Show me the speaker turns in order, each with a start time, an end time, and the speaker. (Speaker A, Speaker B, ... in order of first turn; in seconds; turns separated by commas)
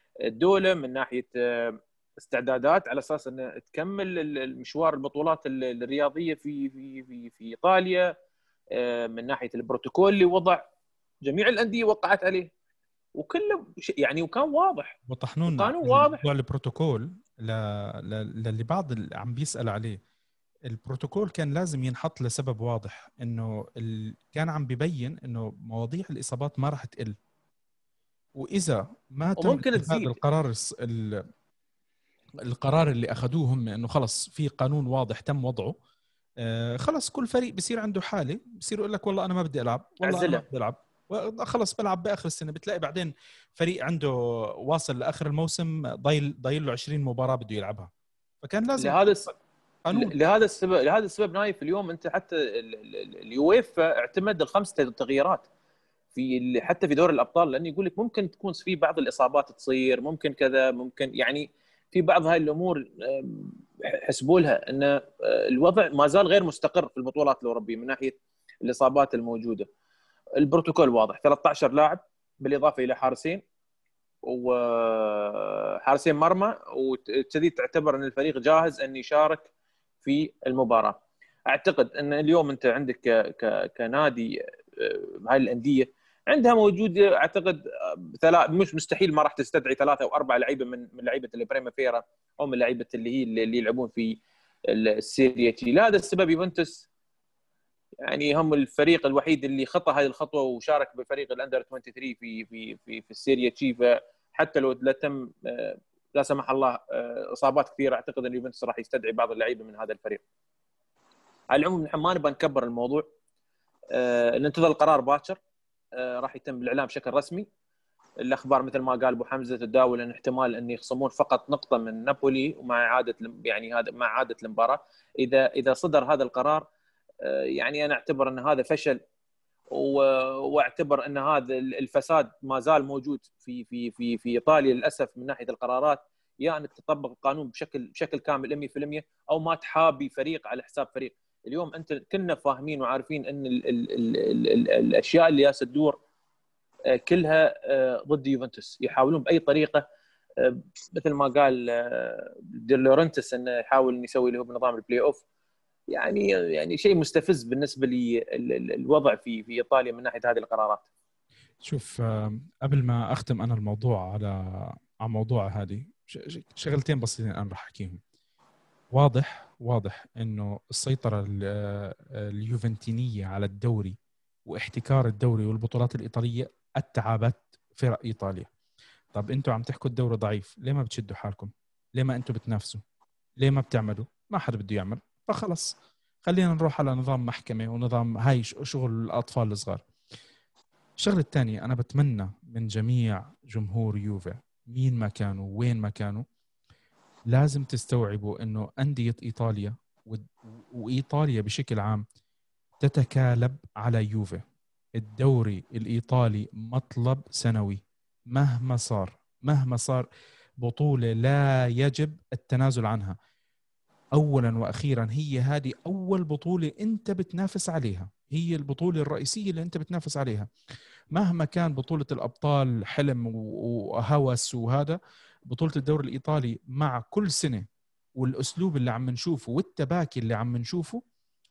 Speaker A: 0.3-8.1, Speaker A: 8.8-10.6, Speaker A: 11.2-12.5, Speaker A: 13.2-15.0, Speaker B: 15.1-20.0, Speaker A: 15.5-16.2, Speaker B: 20.7-27.2, Speaker B: 28.4-31.2, Speaker A: 29.4-30.2, Speaker B: 32.5-35.8, Speaker B: 36.4-44.1, Speaker A: 40.0-40.4, Speaker B: 44.6-47.9, Speaker B: 48.4-49.0, Speaker A: 48.8-49.3, Speaker B: 49.9-50.1, Speaker A: 49.9-55.5, Speaker A: 56.1-69.7, Speaker A: 70.4-73.4, Speaker A: 74.3-79.5, Speaker A: 80.0-96.9, Speaker A: 98.0-110.2, Speaker A: 111.5-113.1, Speaker A: 113.9-115.4, Speaker A: 116.0-117.5, Speaker A: 118.2-126.7, Speaker A: 127.2-129.0, Speaker A: 129.7-146.0, Speaker A: 147.0-149.8, Speaker A: 150.4-155.2, Speaker A: 155.9-160.8, Speaker B: 161.6-168.0, Speaker B: 168.9-178.5, Speaker B: 179.1-182.8, Speaker B: 183.4-189.8, Speaker B: 191.0-196.3, Speaker B: 197.3-202.1, Speaker B: 202.8-204.4, Speaker B: 205.0-210.1, Speaker B: 210.6-213.2, Speaker B: 214.2-220.5, Speaker B: 221.1-225.0, Speaker B: 225.5-227.7, Speaker B: 228.2-231.0